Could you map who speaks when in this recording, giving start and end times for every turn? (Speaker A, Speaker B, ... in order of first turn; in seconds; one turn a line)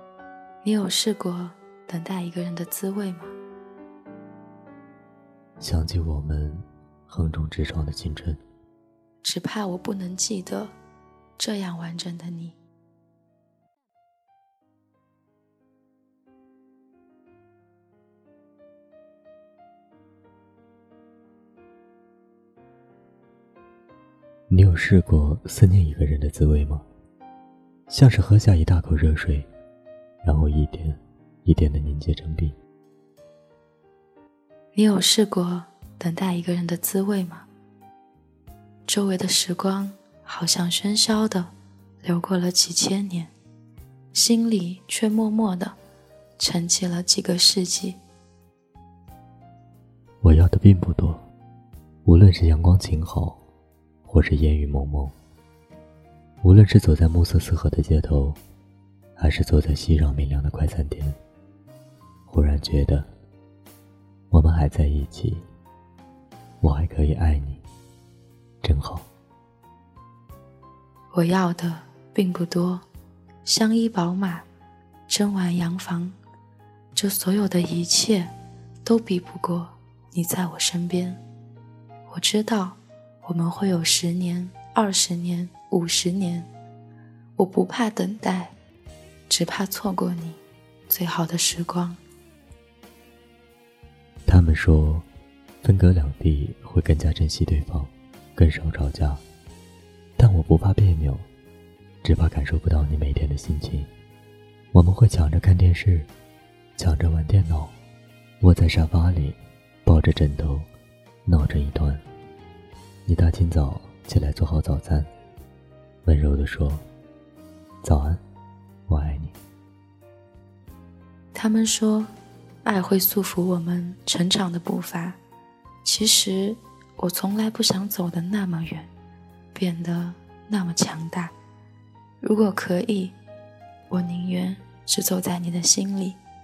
Speaker A: 0.6-3.3
Speaker B: 5.6-8.4
Speaker A: 9.2-10.8
Speaker A: 11.4-12.6
Speaker B: 24.5-26.9
Speaker B: 27.9-29.5
Speaker B: 30.2-32.6
Speaker A: 34.7-37.5
Speaker A: 38.9-43.3
Speaker A: 44.1-45.8
Speaker A: 46.4-48.0
Speaker B: 50.2-51.2
Speaker B: 52.0-53.4
Speaker B: 54.0-55.1
Speaker B: 56.4-58.4
Speaker B: 59.2-61.2
Speaker B: 62.3-63.1
Speaker B: 64.3-65.5
Speaker B: 66.6-67.6
Speaker B: 68.6-69.1
Speaker A: 71.1-72.8
Speaker A: 73.5-74.5
Speaker A: 75.1-76.2
Speaker A: 77.0-78.3
Speaker A: 78.8-81.2
Speaker A: 82.1-86.5
Speaker A: 87.4-88.5
Speaker A: 89.3-92.0
Speaker B: 94.3-95.1
Speaker B: 95.6-99.2
Speaker B: 100.2-101.3
Speaker B: 102.0-103.9
Speaker B: 104.7-106.1
Speaker B: 106.8-107.7
Speaker B: 108.4-110.7
Speaker B: 111.3-112.0
Speaker B: 113.1-115.1
Speaker B: 116.0-116.8
Speaker B: 117.8-118.2
Speaker B: 118.9-119.3
Speaker A: 121.3-122.1
Speaker A: 122.6-125.2
Speaker A: 125.8-128.9
Speaker A: 129.5-131.3
Speaker A: 132.2-133.2
Speaker A: 133.9-136.2